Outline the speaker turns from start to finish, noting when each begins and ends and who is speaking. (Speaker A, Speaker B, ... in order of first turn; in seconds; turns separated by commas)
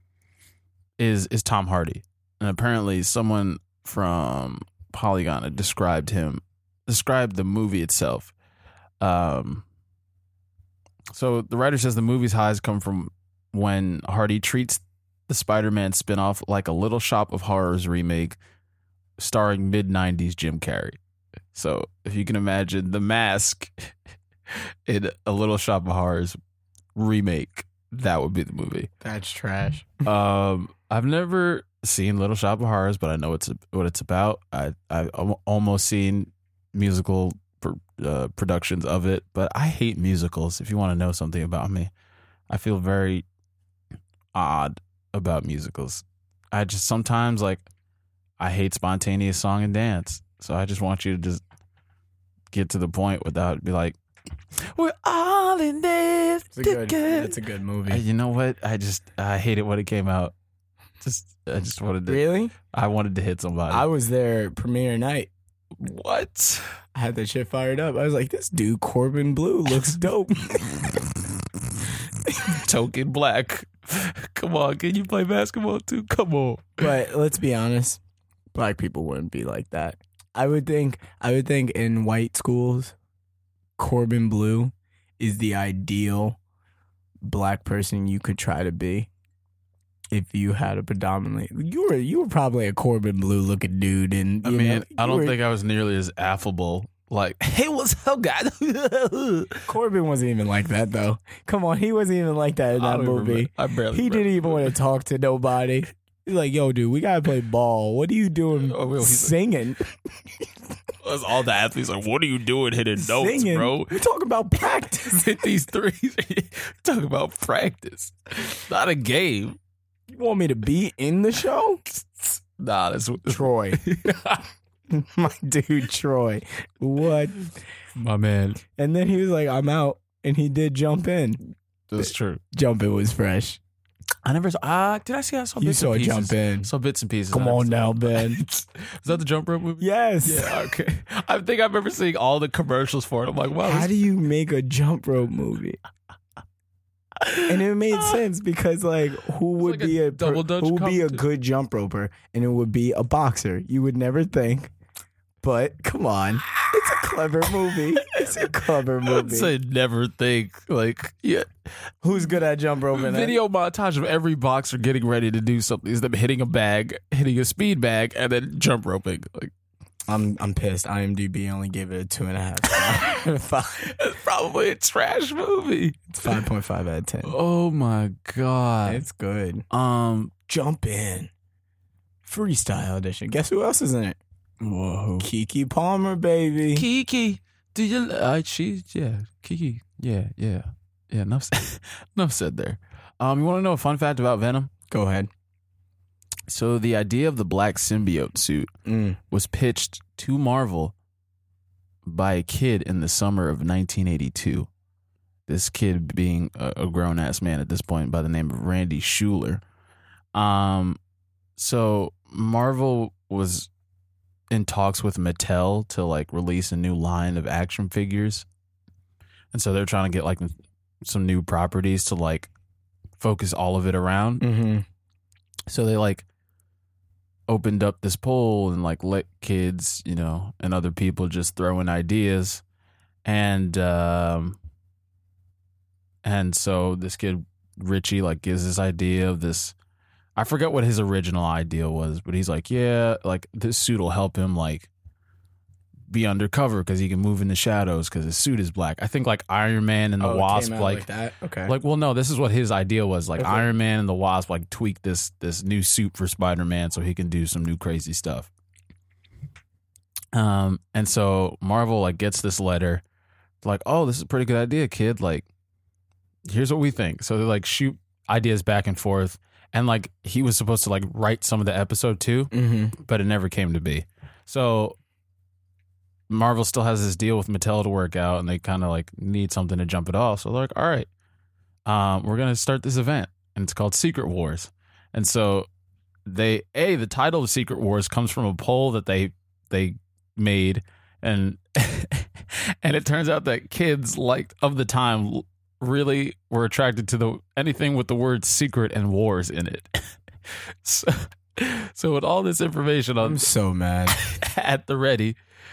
Speaker A: 1.0-8.3, Speaker A: 9.0-9.6, Speaker A: 11.1-18.4, Speaker A: 19.2-21.0, Speaker A: 21.5-23.9, Speaker A: 24.5-26.4, Speaker A: 26.9-28.9, Speaker B: 29.0-30.1, Speaker A: 30.0-41.9, Speaker A: 42.5-43.2, Speaker A: 44.3-47.6, Speaker A: 48.4-51.4, Speaker A: 52.5-54.0, Speaker A: 54.5-60.3, Speaker B: 56.5-58.0, Speaker A: 61.0-63.9, Speaker B: 62.0-62.5, Speaker B: 63.7-65.3, Speaker A: 65.8-66.6, Speaker B: 66.9-70.9, Speaker A: 72.4-76.9, Speaker B: 76.8-78.0, Speaker B: 78.5-82.9, Speaker B: 83.8-86.4, Speaker B: 87.2-89.1, Speaker B: 90.1-95.3, Speaker A: 94.4-99.6, Speaker B: 99.7-109.8, Speaker A: 102.7-104.8, Speaker A: 108.5-109.3, Speaker A: 111.0-114.0, Speaker B: 113.0-115.3, Speaker A: 115.0-119.6, Speaker B: 120.1-121.8, Speaker A: 122.2-124.5, Speaker B: 123.3-123.8, Speaker B: 124.9-127.5, Speaker A: 128.0-128.6, Speaker B: 128.8-131.4, Speaker A: 131.9-132.4, Speaker B: 132.0-133.6, Speaker A: 134.2-143.9, Speaker B: 135.6-136.7, Speaker B: 137.3-138.4, Speaker B: 139.8-140.6, Speaker B: 143.6-145.8, Speaker A: 147.2-148.2, Speaker B: 147.4-154.7, Speaker A: 149.6-151.2, Speaker B: 155.4-159.5, Speaker A: 156.6-158.5, Speaker A: 159.0-161.5, Speaker B: 162.0-163.4, Speaker A: 162.9-169.5, Speaker B: 170.1-173.9, Speaker A: 172.7-173.1, Speaker A: 173.8-176.4, Speaker B: 176.1-177.3, Speaker A: 177.2-179.0, Speaker B: 178.8-179.7, Speaker A: 179.7-180.4, Speaker B: 180.5-181.3, Speaker B: 182.2-184.2, Speaker A: 184.6-185.3, Speaker B: 185.2-186.8, Speaker A: 186.7-194.7, Speaker B: 194.9-195.3, Speaker A: 196.5-198.7, Speaker B: 198.8-199.2, Speaker A: 199.3-200.9, Speaker A: 202.1-204.7, Speaker A: 205.5-209.6, Speaker A: 210.3-211.0, Speaker A: 211.6-213.7, Speaker A: 214.5-218.4, Speaker A: 219.5-222.5, Speaker A: 223.2-224.4, Speaker B: 224.4-224.8, Speaker A: 225.7-226.2, Speaker A: 227.5-232.6, Speaker A: 233.2-234.6, Speaker A: 236.2-239.7, Speaker A: 240.3-244.9, Speaker A: 246.1-251.1, Speaker B: 250.2-251.7, Speaker A: 251.7-258.5, Speaker B: 253.4-253.7, Speaker A: 260.3-263.0, Speaker A: 263.6-265.4, Speaker A: 266.4-275.0, Speaker B: 272.5-272.9, Speaker A: 276.3-281.1, Speaker A: 281.9-285.7, Speaker A: 286.2-303.5, Speaker B: 303.2-304.2, Speaker A: 304.1-305.4